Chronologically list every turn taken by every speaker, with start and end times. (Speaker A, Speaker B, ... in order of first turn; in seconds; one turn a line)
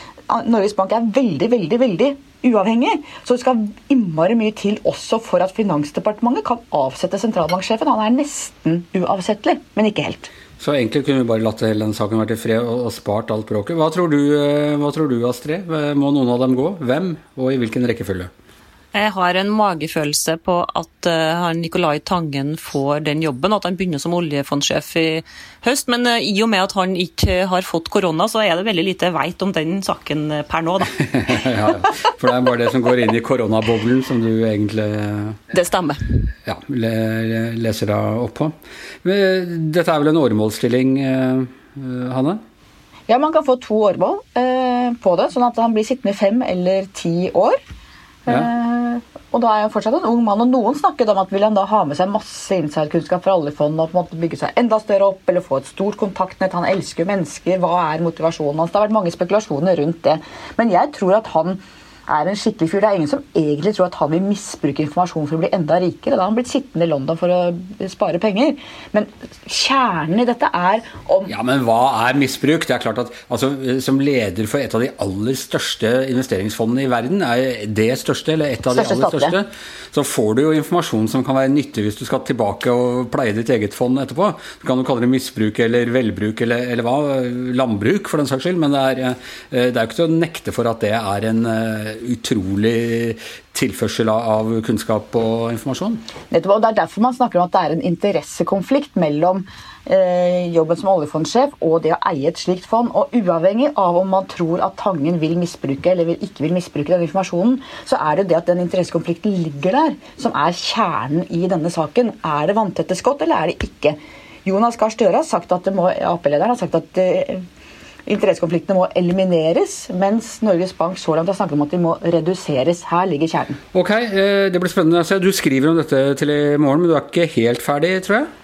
Speaker A: 0.3-10.3
Speaker B: 10.6-18.3
Speaker C: 18.9-30.9
Speaker B: 31.0-35.4
Speaker C: 35.5-36.0
Speaker B: 36.5-42.4
Speaker A: 43.1-47.6
Speaker A: 48.2-71.3
Speaker B: 71.3-96.0
Speaker A: 78.7-79.4
Speaker A: 96.3-117.4
Speaker A: 118.1-123.6
Speaker B: 123.7-128.3